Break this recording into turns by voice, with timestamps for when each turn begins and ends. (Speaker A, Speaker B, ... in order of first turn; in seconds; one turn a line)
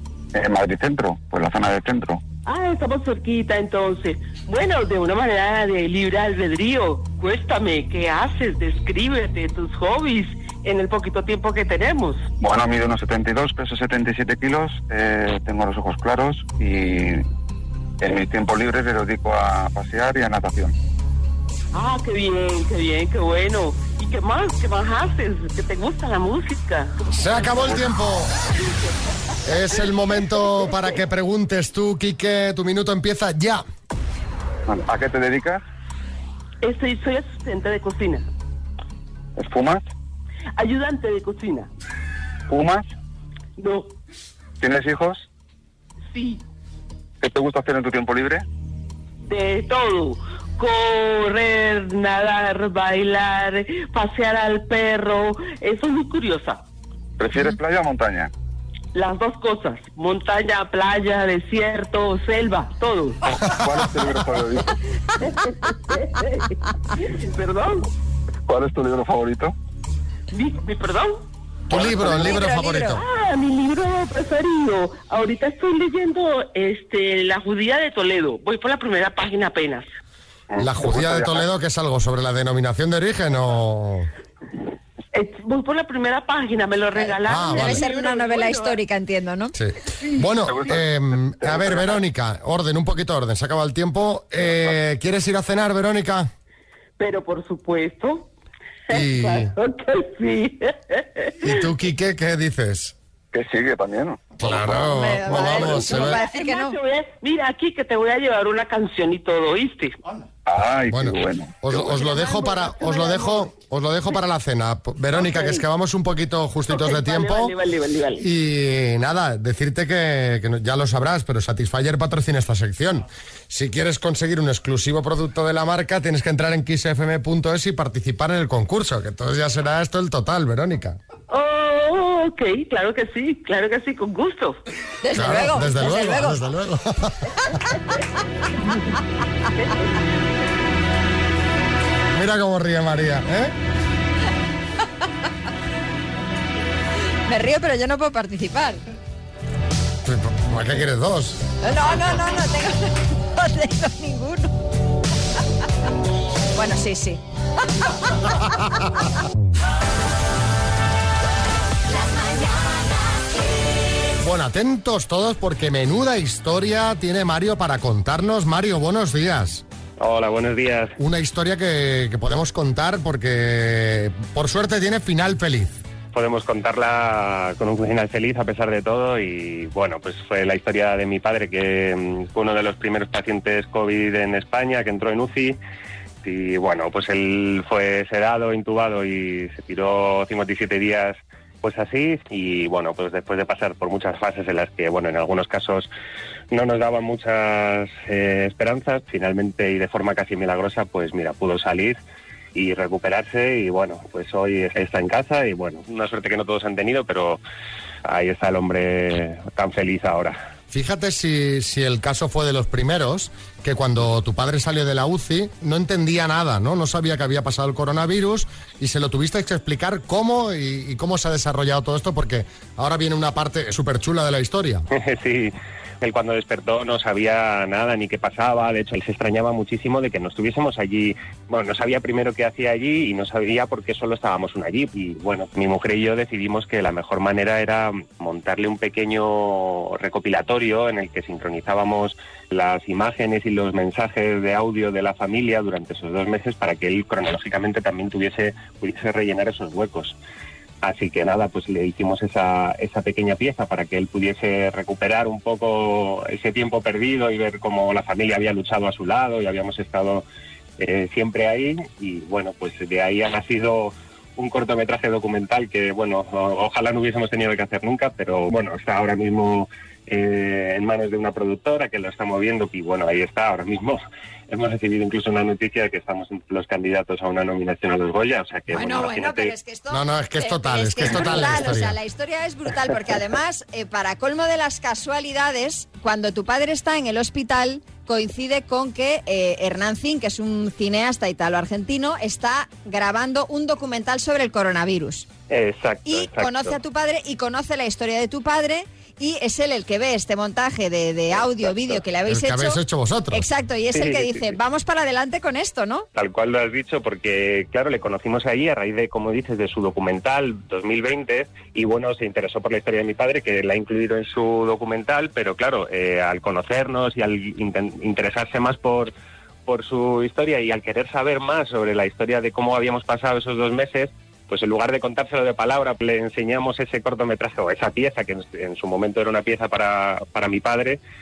Speaker A: 0.3-2.2
Speaker B: 2.5-12.2
Speaker A: 12.4-17.2
Speaker A: 18.0-20.8
Speaker B: 21.7-27.8
Speaker C: 27.1-28.3
Speaker C: 29.4-33.6
Speaker B: 30.4-30.9
Speaker A: 34.7-35.6
Speaker B: 36.6-38.3
Speaker A: 39.4-39.9
Speaker B: 40.6-41.7
Speaker A: 42.5-42.9
Speaker B: 43.6-43.9
Speaker A: 44.6-45.3
Speaker B: 46.1-46.4
Speaker A: 47.2-48.4
Speaker B: 49.2-56.6
Speaker A: 57.2-58.3
Speaker B: 58.9-63.2
Speaker A: 63.3-64.7
Speaker B: 65.2-67.9
Speaker A: 68.5-69.5
Speaker B: 70.3-71.2
Speaker C: 71.7-73.0
Speaker D: 71.7-73.0
Speaker B: 73.0-79.9
Speaker A: 80.5-81.5
Speaker C: 80.6-84.1
Speaker B: 85.1-88.8
Speaker D: 87.0-89.5
Speaker C: 87.3-87.8
Speaker C: 89.5-96.3
Speaker A: 90.4-92.0
Speaker B: 97.0-98.3
Speaker B: 98.9-101.5
Speaker C: 98.9-99.5
Speaker C: 101.4-103.0
Speaker A: 103.3-104.8
Speaker C: 104.4-106.2
Speaker D: 104.8-106.8
Speaker B: 105.3-110.0
Speaker A: 110.5-111.9
Speaker C: 110.9-117.5
Speaker B: 111.9-113.5
Speaker B: 115.2-115.7
Speaker B: 116.7-118.3
Speaker C: 118.2-131.0
Speaker B: 131.3-134.6
Speaker D: 135.0-136.4
Speaker C: 135.1-137.3
Speaker B: 139.6-139.9
Speaker C: 142.1-143.6
Speaker D: 147.3-148.8
Speaker C: 150.0-151.4
Speaker D: 151.6-154.5
Speaker D: 156.6-157.2
Speaker C: 164.2-169.6
Speaker E: 170.0-170.9
Speaker C: 171.0-175.7
Speaker E: 176.1-185.6
Speaker E: 186.2-195.9
Speaker E: 196.5-202.0
Speaker E: 202.5-207.4
Speaker E: 208.1-210.4
Speaker C: 210.7-224.9
Speaker E: 224.9-250.2
Speaker E: 250.8-260.2
Speaker E: 260.8-279.5
Speaker D: 278.7-295.3
Speaker C: 279.9-282.0
Speaker E: 295.5-296.8
Speaker D: 296.1-306.1
Speaker C: 302.3-303.5
Speaker E: 303.9-304.6
Speaker E: 306.1-319.1
Speaker E: 319.7-331.0